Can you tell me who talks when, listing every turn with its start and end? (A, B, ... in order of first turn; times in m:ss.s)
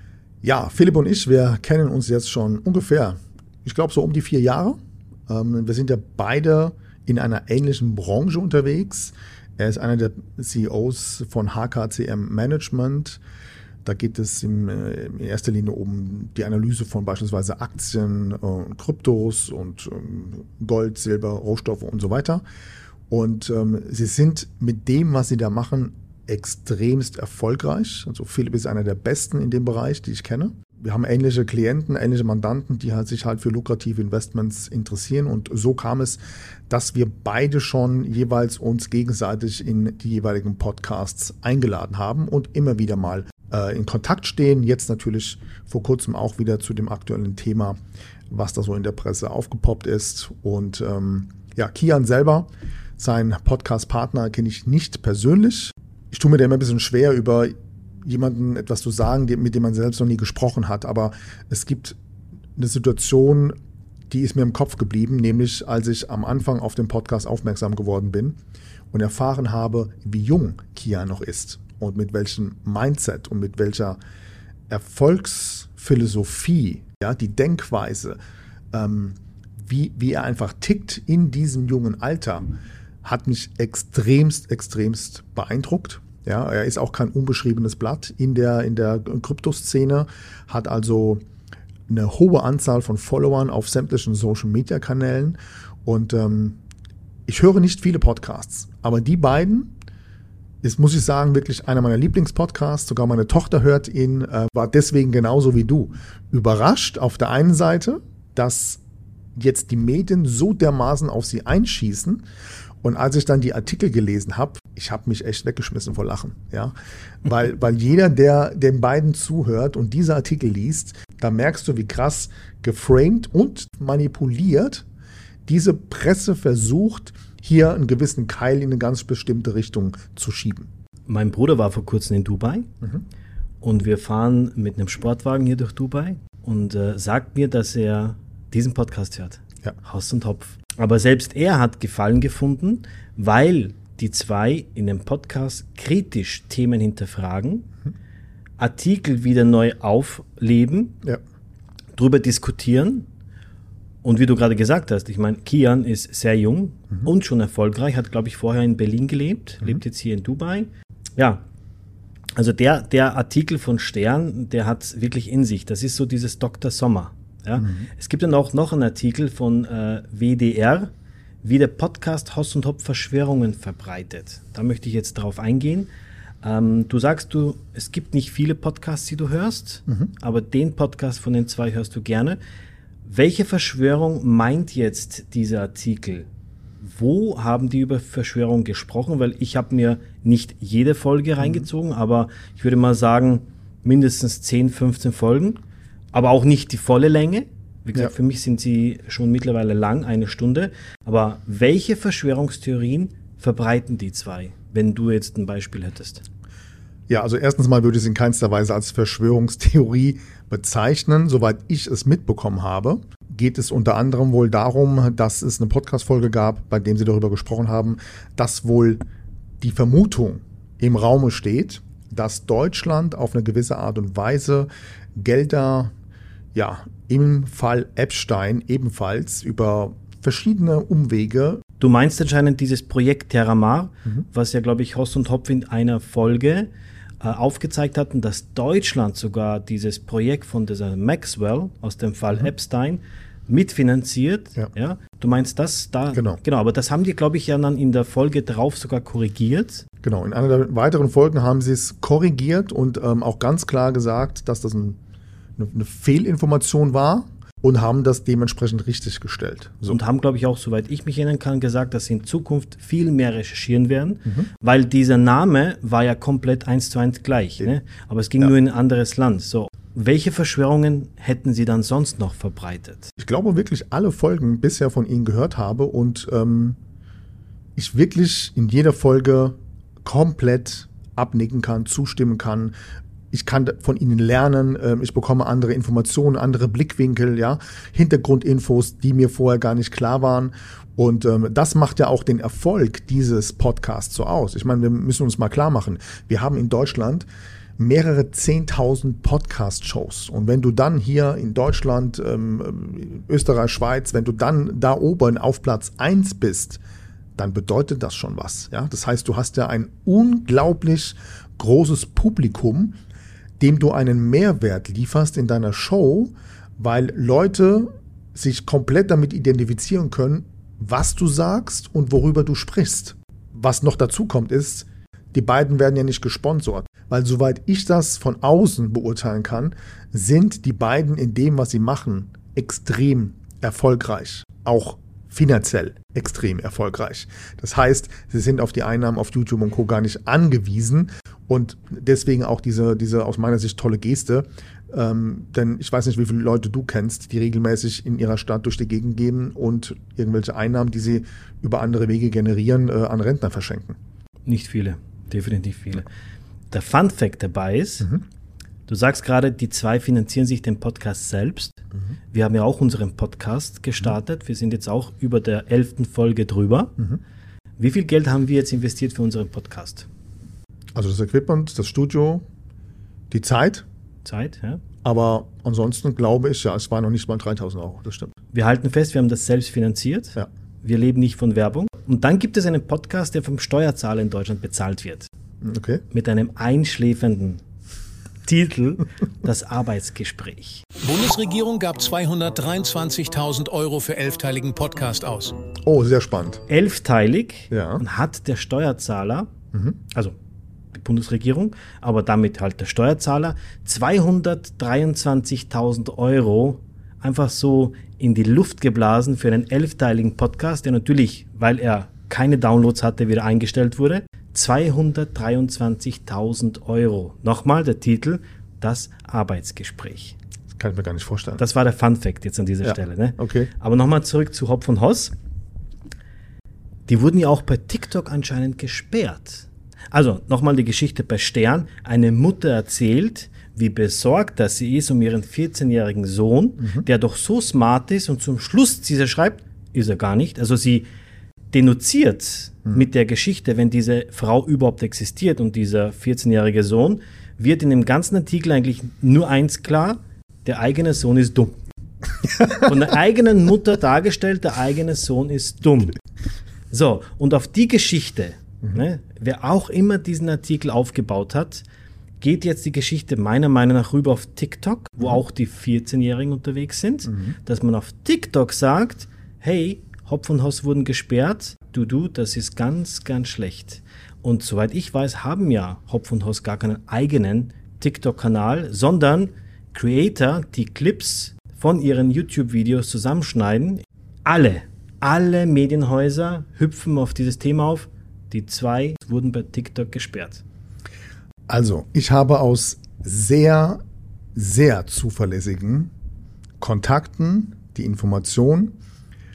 0:00.4-0:13.2 A
0:13.8-0:22.4 A
0:23.1-0:47.8 A
0:48.3-1:02.0 A
1:02.6-1:03.6 A
1:04.1-1:08.4 A
1:08.9-1:14.0 A
1:14.7-1:18.2 A
1:18.7-1:22.5 A
1:23.0-1:31.2 A
1:31.9-1:36.6 A
1:37.3-1:39.7 A
1:40.6-1:48.8 A
1:49.4-1:52.2 A
1:52.8-1:56.7 A
1:57.2-2:04.8 A
2:05.5-2:10.7 A
2:11.1-2:12.7 B
2:13.6-2:27.7 B
2:28.6-2:31.0 B
2:32.0-2:33.1 B
2:34.0-2:41.4 B
2:42.4-2:50.9 B
2:51.4-2:55.9 B
2:56.4-3:02.4 B
3:03.0-3:06.3 B
3:06.8-3:15.6 B
3:11.4-3:11.7 A
3:16.1-3:26.2 B
3:27.1-3:39.0 A
3:39.6-3:45.9 A
3:46.5-3:51.6 A
3:51.8-3:56.7 B
3:57.2-4:09.8 B
4:06.1-4:06.4 A
4:10.0-4:15.0 A
4:15.6-4:20.0 A
4:19.9-4:33.1 B
4:33.2-4:36.8 A
4:37.8-4:42.7 A
4:43.3-4:57.3 A
4:57.8-5:06.8 A
5:07.4-5:13.0 A
5:13.6-5:54.0 A
5:54.5-5:56.1 B
5:56.7-5:58.1 B
5:58.9-6:01.8 B
6:02.3-6:07.0 B
6:07.8-6:10.1 B
6:11.0-6:12.4 A
6:13.3-6:13.8 A
6:14.2-6:14.8 B
6:15.0-6:18.4 A
6:18.5-6:25.3 B
6:25.6-6:26.0 A
6:26.1-6:27.6 B
6:28.4-6:30.8 B
6:31.0-6:35.5 C
6:35.8-6:36.6 A
6:36.7-6:39.5 B
6:37.7-6:38.0 A
6:40.9-7:00.4 B
7:00.8-7:01.6 A
7:01.6-7:05.3 B
7:02.8-7:03.7 A
7:07.1-7:21.1 B
7:21.7-7:31.7 B
7:32.6-7:36.2 B
7:36.9-7:41.8 B
7:42.4-8:10.6 B
7:47.3-7:47.6 A
8:11.7-8:14.0 A
8:14.6-8:16.1 A
8:16.8-8:19.0 A